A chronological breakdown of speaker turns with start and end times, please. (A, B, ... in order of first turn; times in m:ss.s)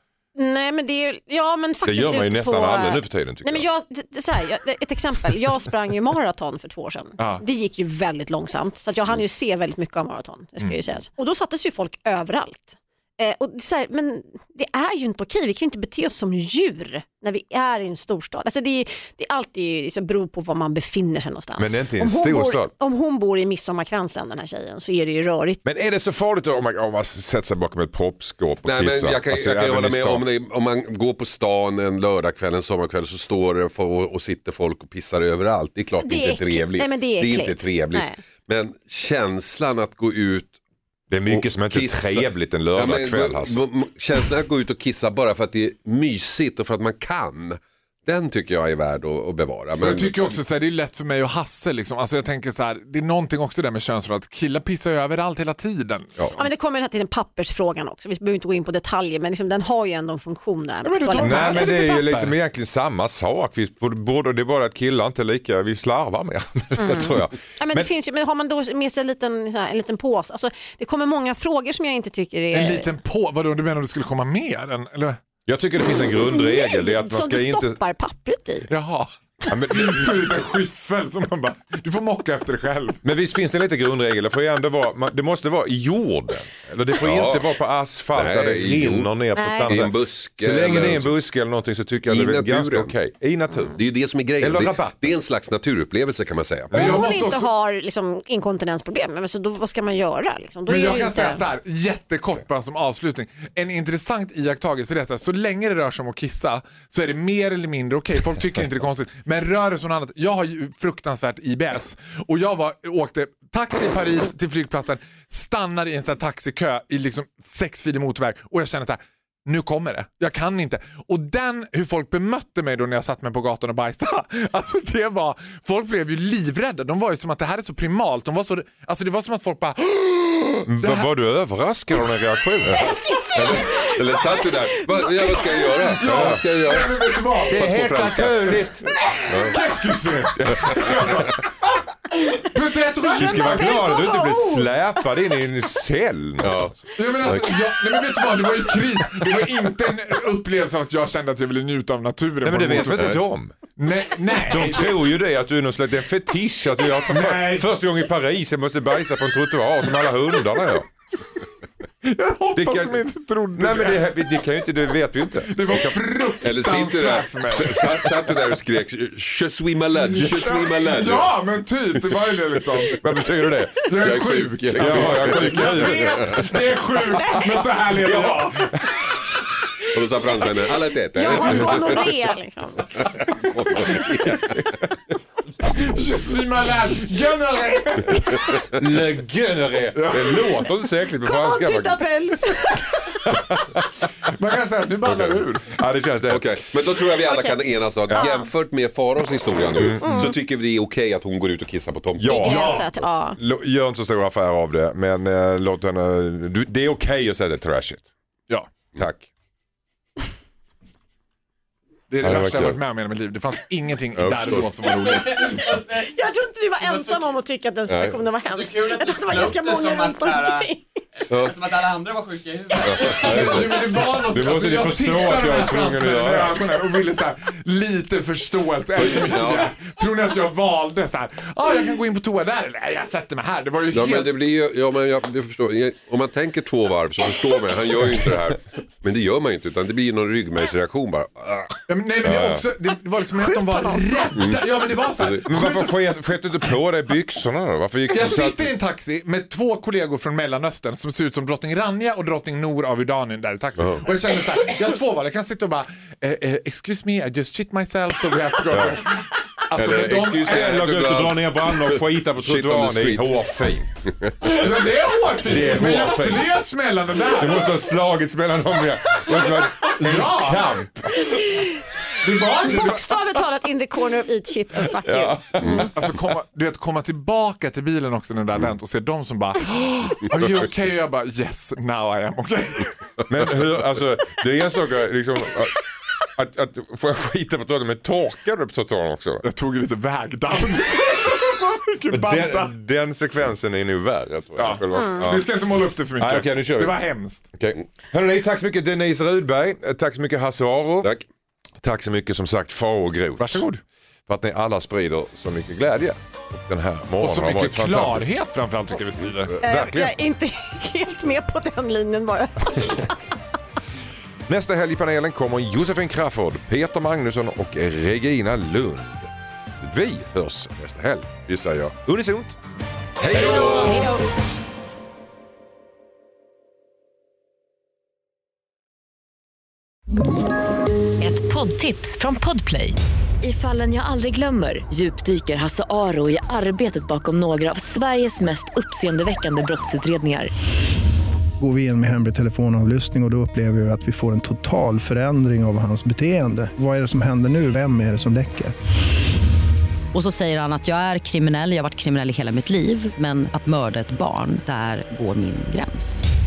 0:00.4-0:25.6 A
0:01.8-0:03.6 B
0:21.6-0:22.7 B
0:25.6-0:30.2 B
0:28.6-0:40.6 C
0:36.0-0:38.2 A
0:41.1-0:43.6 B
0:41.3-0:50.2 C
0:49.8-0:56.1 D
0:56.2-0:56.4 C
0:56.4-1:01.9 A
1:00.8-1:02.3 D
1:01.2-1:07.9 B
1:06.8-1:12.9 A
1:12.5-1:15.2 D
1:15.4-1:17.8 B
1:15.9-1:18.7 A
1:18.7-1:23.0 D
1:19.5-1:20.2 B
1:23.0-1:33.8 B
1:26.9-1:27.5 C
1:28.1-1:29.1 C
1:29.3-1:29.9 A
1:29.6-1:31.1 C
1:32.1-1:32.9 C
1:33.8-1:36.7 C
1:34.4-1:35.1 B
1:36.7-1:37.0 B
1:36.7-1:37.5 D
1:36.7-1:41.4 A
1:40.7-2:11.1 D
2:10.6-2:12.8 B
2:12.7-2:18.6 C
2:12.8-2:15.8 A
2:16.0-2:21.5 D
2:16.0-2:16.4 B
2:17.5-2:18.9 B
2:19.3-2:19.5 C
2:20.4-2:21.3 B
2:22.1-2:23.9 D
2:23.2-2:27.5 B
2:23.2-2:24.7 A
2:26.4-2:27.5 C
2:26.9-2:33.2 D
2:32.4-2:33.6 B
2:33.8-2:34.9 D
2:34.4-2:40.9 B
2:37.1-2:37.7 D
2:42.0-2:44.2 D
2:42.5-2:45.9 B
2:45.5-2:48.1 D
2:46.4-2:51.3 C
2:47.6-2:48.4 B
2:50.0-2:53.0 D
2:50.2-2:50.5 B
2:53.0-2:53.8 B
2:53.8-2:58.7 D
2:53.9-2:56.6 C
2:54.7-2:56.6 B
2:57.1-2:59.1 B
2:59.9-3:02.1 C
3:01.1-3:03.1 A
3:03.0-3:04.7 C
3:05.6-3:08.7 D
3:08.8-3:12.0 B
3:09.9-3:10.6 D
3:11.2-3:13.2 A
3:13.3-3:13.8 B
3:14.2-3:15.7 D
3:15.1-3:16.6 B
3:16.3-3:22.3 C
3:17.2-3:18.5 A
3:18.1-3:18.3 B
3:19.8-3:20.3 B
3:20.0-3:20.3 A
3:22.2-3:28.1 B
3:22.3-3:23.4 A
3:22.4-3:22.9 D
3:29.0-3:29.3 B
3:32.1-3:35.7 D
3:32.2-3:32.8 B
3:34.2-3:35.2 C
3:35.4-3:41.0 A
3:37.9-3:38.2 C
3:38.7-3:40.6 E
3:41.3-3:41.8 C
3:41.5-3:43.0 E
3:42.7-3:54.3 D
3:42.8-3:43.7 C
3:43.2-3:46.7 B
3:49.0-3:49.7 C
3:53.9-4:01.8 C
4:01.9-4:06.0 D
4:02.2-4:02.6 B
4:03.5-4:04.0 A
4:04.3-4:05.4 C
4:05.4-4:08.8 B
4:08.1-4:20.7 D
4:13.8-4:14.1 C
4:18.7-4:19.0 B
4:19.7-4:23.5 C
4:20.4-4:24.0 B
4:24.0-4:24.7 C
4:24.4-4:27.7 D
4:25.4-4:26.6 B
4:27.3-4:31.4 B
4:30.0-4:30.7 D
4:31.3-4:31.6 A
4:32.2-4:33.2 D
4:32.6-4:35.7 A
4:35.0-4:36.0 B
4:35.6-4:35.9 C
4:35.8-4:43.0 D
4:43.3-4:49.4 B
4:49.4-4:52.7 D
4:52.1-4:55.5 B
4:54.6-4:57.4 D
4:54.9-4:55.3 A
4:56.1-5:01.1 B
5:01.8-5:03.7 B
5:03.4-5:03.8 D
5:04.3-5:08.3 B
5:07.2-5:09.5 D
5:09.4-5:10.2 B
5:09.6-5:13.2 A
5:14.5-5:22.6 B
5:23.2-5:23.9 B
5:23.2-5:24.1 D
5:23.2-5:24.2 A
5:31.2-5:40.5 F
5:41.6-5:48.7 G
5:50.1-5:56.2 H